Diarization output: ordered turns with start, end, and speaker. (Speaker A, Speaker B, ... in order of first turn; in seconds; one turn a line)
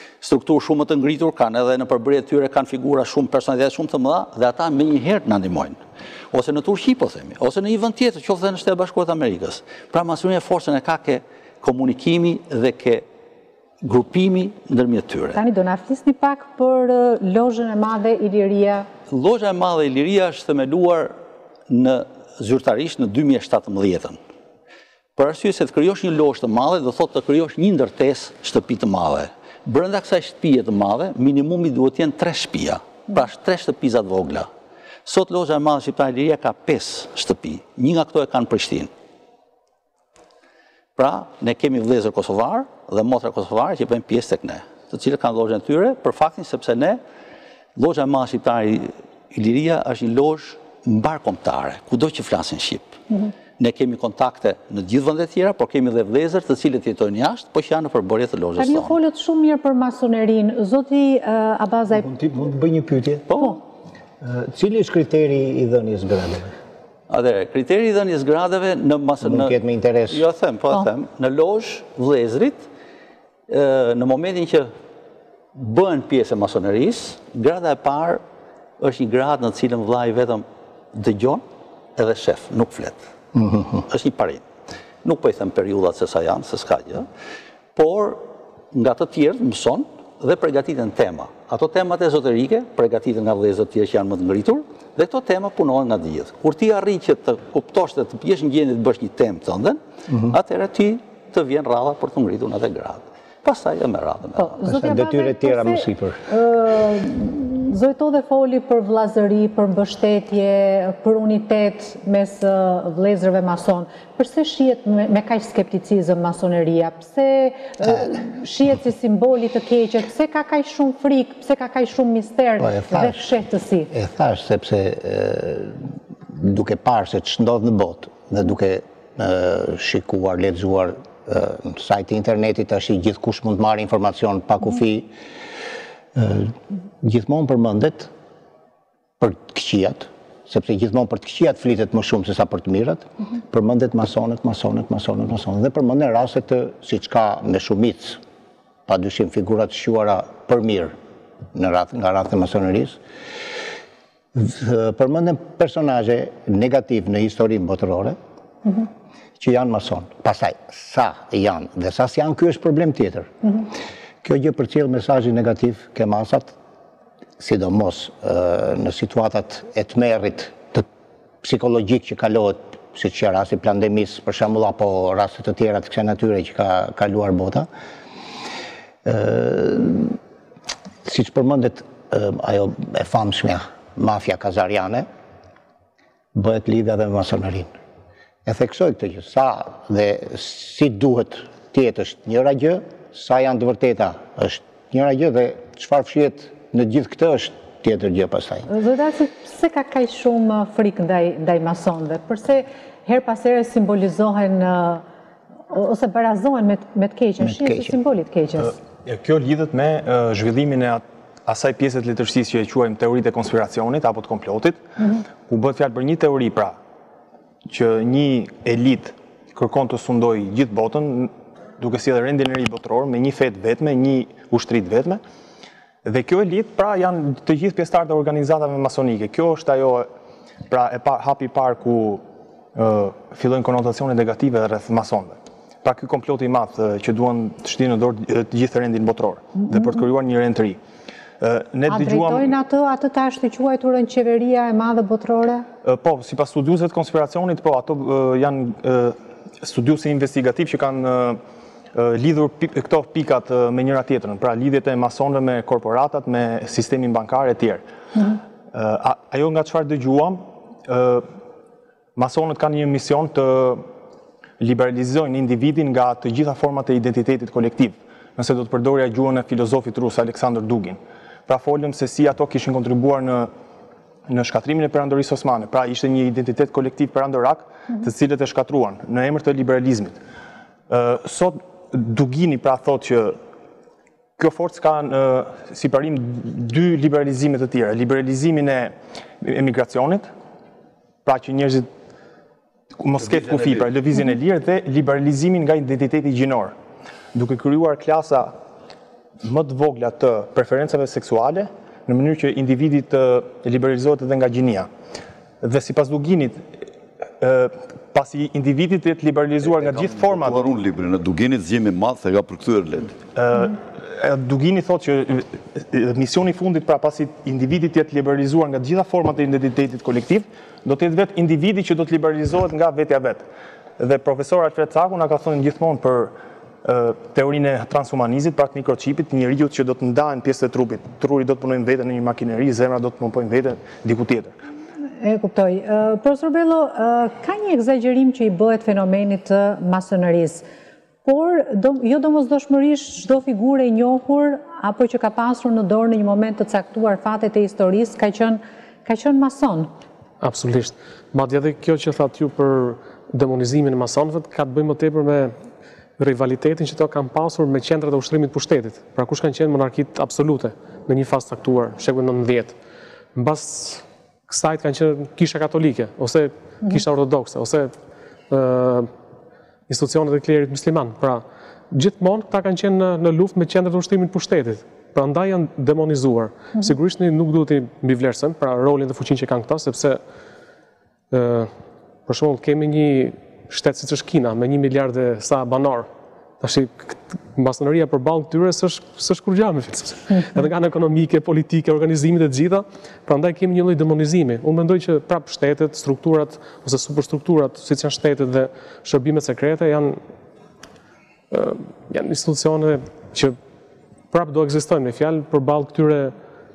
Speaker A: 0.2-5.8
Speaker A: 6.3-13.1
Speaker A: 13.8-15.4
Speaker B: 15.3-18.9
Speaker A: 19.1-21.1
Speaker A: 21.7-24.2
Speaker A: 25.2-34.5
Speaker A: 35.1-38.9
Speaker A: 41.0-47.0
Speaker A: 47.8-53.0
Speaker A: 53.6-59.0
Speaker B: 58.6-62.1
Speaker C: 62.0-63.5
Speaker A: 63.3-63.6
Speaker C: 64.2-66.5
Speaker A: 67.1-69.6
Speaker C: 69.2-70.2
Speaker A: 70.1-72.7
Speaker A: 73.5-74.7
Speaker A: 75.6-78.2
Speaker A: 78.8-81.4
Speaker A: 82.0-83.0
Speaker C: 83.4-83.8
Speaker A: 83.8-84.4
Speaker A: 85.0-87.1
Speaker A: 87.8-104.6
Speaker C: 100.1-100.4
Speaker B: 104.4-123.9
Speaker C: 104.6-106.2
Speaker C: 122.6-123.2
Speaker C: 123.9-135.1
Speaker C: 136.1-138.1
Speaker C: 139.2-148.2
Speaker C: 148.9-150.9
Speaker C: 151.5-153.0
Speaker C: 154.3-158.2
Speaker C: 159.4-163.6
Speaker C: 164.2-166.6
Speaker C: 167.4-170.9
Speaker C: 171.4-177.7
Speaker C: 179.1-180.2
Speaker C: 181.1-185.1
Speaker C: 186.3-187.7
Speaker C: 188.4-198.7
Speaker B: 198.7-205.0
Speaker B: 205.7-208.8
Speaker C: 207.4-207.9
Speaker D: 209.1-214.8
Speaker D: 215.5-216.8
Speaker D: 217.7-225.2
Speaker D: 226.0-230.1
Speaker D: 230.7-232.2
Speaker D: 232.7-240.8
Speaker D: 241.4-242.5
Speaker B: 241.9-245.7
Speaker D: 245.8-251.4
Speaker D: 251.9-257.8
Speaker D: 258.7-261.3
Speaker D: 262.2-263.9
Speaker D: 264.6-273.5
Speaker D: 274.3-280.2
Speaker D: 280.9-283.4
Speaker D: 284.4-290.3
Speaker D: 291.2-291.9
Speaker D: 293.0-296.8
Speaker D: 297.3-298.6
Speaker D: 299.4-304.9
Speaker D: 305.6-306.7
Speaker D: 307.4-310.7
Speaker E: 309.6-313.1
Speaker D: 313.4-334.6
Speaker B: 335.2-340.6
Speaker B: 341.3-349.9
Speaker F: 350.4-355.6
Speaker F: 356.2-362.8
Speaker F: 363.4-367.9
Speaker F: 368.5-369.1
Speaker F: 369.9-380.2
Speaker F: 381.3-381.7
Speaker F: 382.3-386.1
Speaker F: 386.6-400.2
Speaker F: 401.5-403.6
Speaker F: 404.3-406.3